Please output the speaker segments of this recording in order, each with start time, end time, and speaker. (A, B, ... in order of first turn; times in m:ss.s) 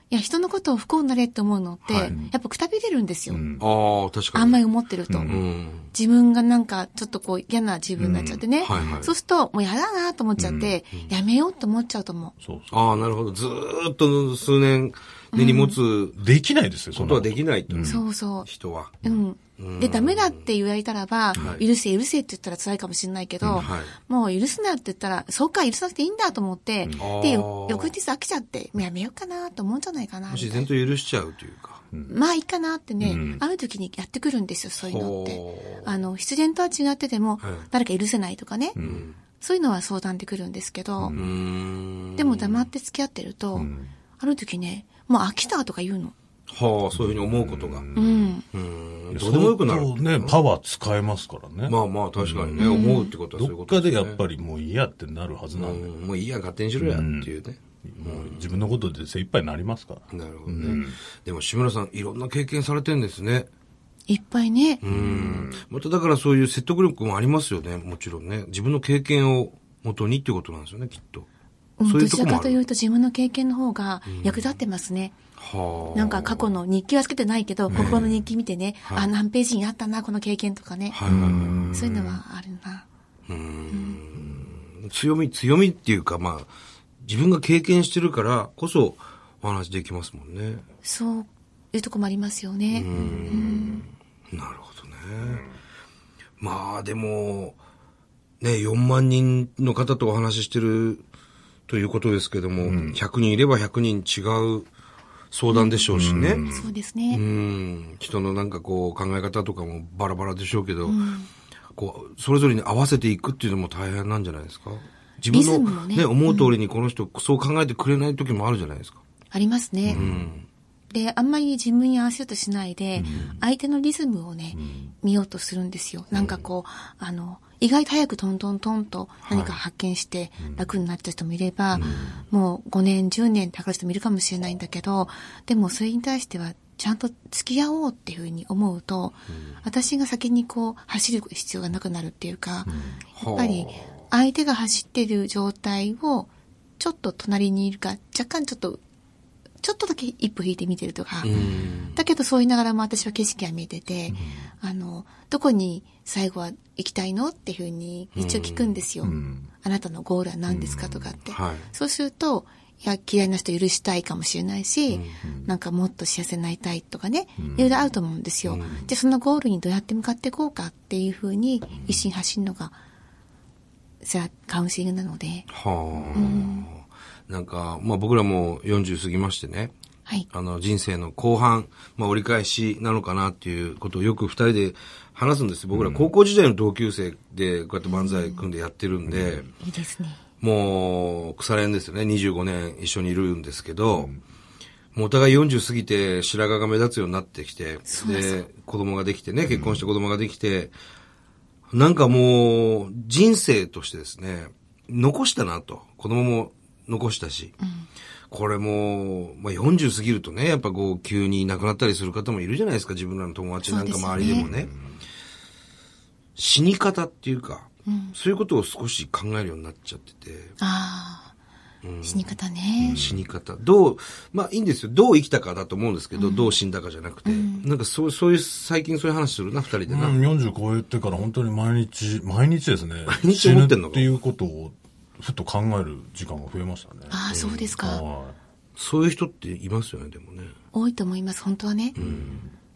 0:00.1-0:03.4 A
0:01.8-0:02.1 B
0:02.0-0:02.3 C
0:03.3-0:03.6 C
0:03.6-0:04.6 B
0:04.3-0:12.3 A
0:05.1-0:05.4 C
0:05.2-0:05.9 B
0:08.0-0:09.0 C
0:08.6-0:09.1 B
0:10.4-0:10.8 C
0:12.4-0:13.1 C
0:12.7-0:16.2 B
0:15.3-0:15.8 A
0:16.2-0:18.0 C
0:16.9-0:19.0 B
0:17.8-0:18.5 A
0:19.0-0:30.7 A
0:19.6-0:20.4 B
0:21.3-0:21.6 B
0:23.4-0:23.7 C
0:23.5-0:23.9 B
0:27.0-0:27.9 B
0:30.3-0:31.8 B
0:32.1-0:38.8 A
0:33.0-0:33.4 C
0:34.8-0:35.9 B
0:37.4-0:37.7 B
0:38.7-0:39.0 C
0:38.8-0:39.2 B
0:39.4-0:41.2 A
0:41.0-0:41.3 C
0:41.1-0:42.7 B
0:42.2-0:46.1 A
0:43.5-0:43.9 C
0:46.5-0:47.9 B
0:46.9-0:48.4 C
0:47.9-0:48.4 A
0:48.5-0:50.4 B
0:49.1-0:55.9 C
0:51.6-0:54.2 B
0:52.6-0:53.1 A
0:55.5-0:58.5 B
0:56.8-0:57.3 C
0:57.8-1:01.0 C
1:00.1-1:03.5 B
1:04.1-1:04.8 A
1:04.8-1:11.3 B
1:04.9-1:05.6 C
1:11.8-1:15.2 A
1:11.8-1:12.6 B
1:14.0-1:14.4 B
1:15.4-1:16.3 B
1:15.9-1:21.1 A
1:17.7-1:18.2 C
1:17.7-1:18.0 B
1:20.9-1:21.8 B
1:21.1-1:22.2 C
1:21.6-1:22.8 A
1:23.3-1:26.5 B
1:23.7-1:24.0 A
1:27.0-1:30.6 B
1:30.8-1:33.8 A
1:32.7-1:35.4 B
1:32.9-1:33.8 C
1:35.2-1:35.5 C
1:36.4-1:37.6 B
1:38.4-1:41.0 B
1:41.7-1:44.7 B
1:42.6-1:43.0 C
1:45.3-1:46.4 B
1:45.5-1:47.2 A
1:45.9-1:46.7 C
1:47.1-1:51.0 B
1:50.8-1:51.3 A
1:51.8-1:59.0 B
1:55.3-1:56.5 A
1:59.3-2:00.0 A
1:59.8-2:00.3 C
1:59.9-2:00.4 B
2:00.9-2:28.8 A
2:02.9-2:03.4 C
2:04.5-2:04.9 C
2:09.2-2:09.6 B
2:10.4-2:10.8 C
2:11.7-2:12.2 C
2:11.7-2:12.0 B
2:19.3-2:19.6 B
2:22.6-2:23.0 C
2:23.2-2:24.0 B
2:29.6-2:31.3 A
2:31.2-2:32.0 B
2:31.3-2:31.7 C
2:31.9-2:52.8 A
2:34.1-2:34.5 C
2:38.1-2:38.8 B
2:39.0-2:39.5 C
2:40.5-2:41.2 C
2:41.3-2:41.7 B
2:44.9-2:45.2 B
2:45.2-2:45.5 C
2:47.4-2:47.8 C
2:48.5-2:48.8 B
2:51.8-2:52.0 C
2:54.0-2:55.5 A
2:55.5-2:59.7 B
2:55.9-2:56.5 C
2:56.1-2:56.7 A
3:00.3-3:09.5 B
3:05.7-3:06.1 C
3:07.8-3:08.4 A
3:09.6-3:10.2 A
3:10.4-3:14.2 B
3:14.9-3:20.7 B
3:17.8-3:18.4 A
3:19.5-3:19.8 C
3:21.7-3:27.6 B
3:27.6-3:27.9 A
3:28.3-3:34.7 B
3:33.6-3:34.5 A
3:34.2-3:35.0 C
3:36.4-3:40.5 B
3:37.8-3:38.1 A
3:40.6-3:41.3 A
3:41.8-3:42.3 B
3:42.0-3:43.0 A
3:42.8-3:43.2 C
3:42.8-3:50.2 B
3:46.1-3:46.6 A
3:47.2-3:47.7 A
3:49.9-3:57.2 C
3:53.1-3:54.1 B
3:57.1-3:58.0 A
3:57.3-3:57.7 B
3:57.8-3:58.4 C
3:58.8-4:00.5 B
4:00.7-4:02.0 A
4:01.9-4:02.4 B
4:02.0-4:02.6 C